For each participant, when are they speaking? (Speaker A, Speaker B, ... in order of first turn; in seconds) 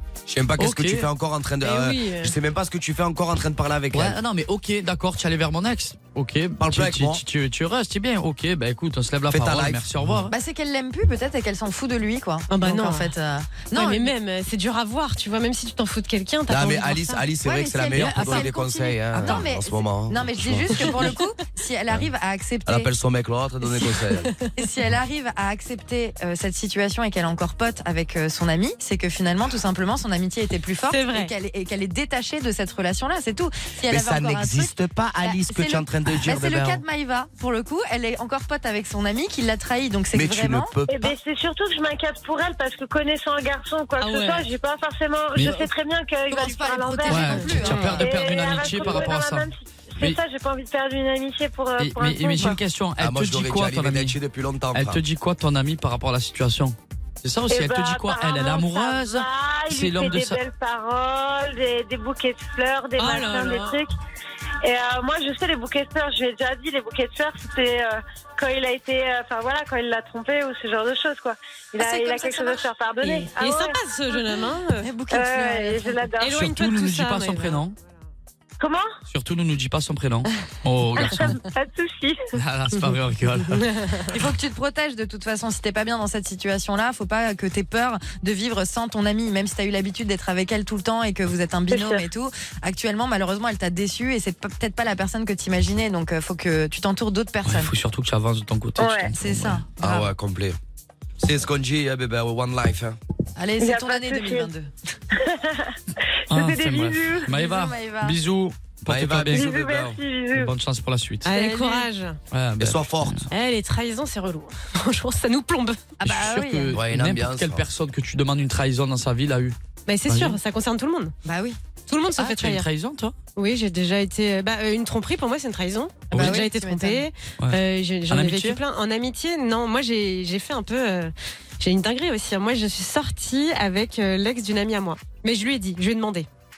Speaker A: 0.3-4.2, 6.6-7.2, 9.3-10.2, 16.5-21.1, 22.7-24.3, 33.9-36.8, 40.1-41.1, 53.0-55.0, 99.8-100.6, 101.2-103.0, 108.9-110.0, 112.6-113.2, 116.7-117.6
Speaker B: 0.6-1.1, 3.9-10.3, 17.9-18.5, 45.4-45.6, 47.1-50.2, 51.8-54.2, 54.7-60.4, 76.3-77.8, 79.1-81.4, 82.3-83.7, 97.5-99.6, 106.3-109.6, 110.3-111.5, 112.3-113.3, 116.0-119.6, 120.1-120.4, 122.2-123.2, 126.1-126.5, 127.4-128.6
Speaker C: 1.6-2.4, 12.5-13.1, 13.7-17.2, 20.7-21.1, 23.9-24.5, 30.9-31.3, 44.0-44.5, 47.4-47.7, 63.0-63.8, 73.0-74.9, 76.2-77.6, 83.5-84.1, 111.2-112.2, 113.3-116.0, 119.9-121.1, 121.9-122.7, 123.4-136.3
Speaker D: 10.3-14.1, 17.4-22.9, 24.6-40.7, 46.3-48.1, 71.8-72.7, 74.8-76.1, 84.1-97.7, 99.2-100.1, 103.4-104.7, 107.3-108.2, 111.3-111.9, 116.0-116.8, 121.2-121.6, 126.1-127.0
Speaker E: 40.9-52.5, 57.5-63.9, 64.6-73.8, 75.1-76.4, 78.6-78.9, 81.1-82.2, 91.7-92.1, 98.8-99.1, 103.6-104.5, 105.1-105.7, 106.3-107.3, 109.3-110.5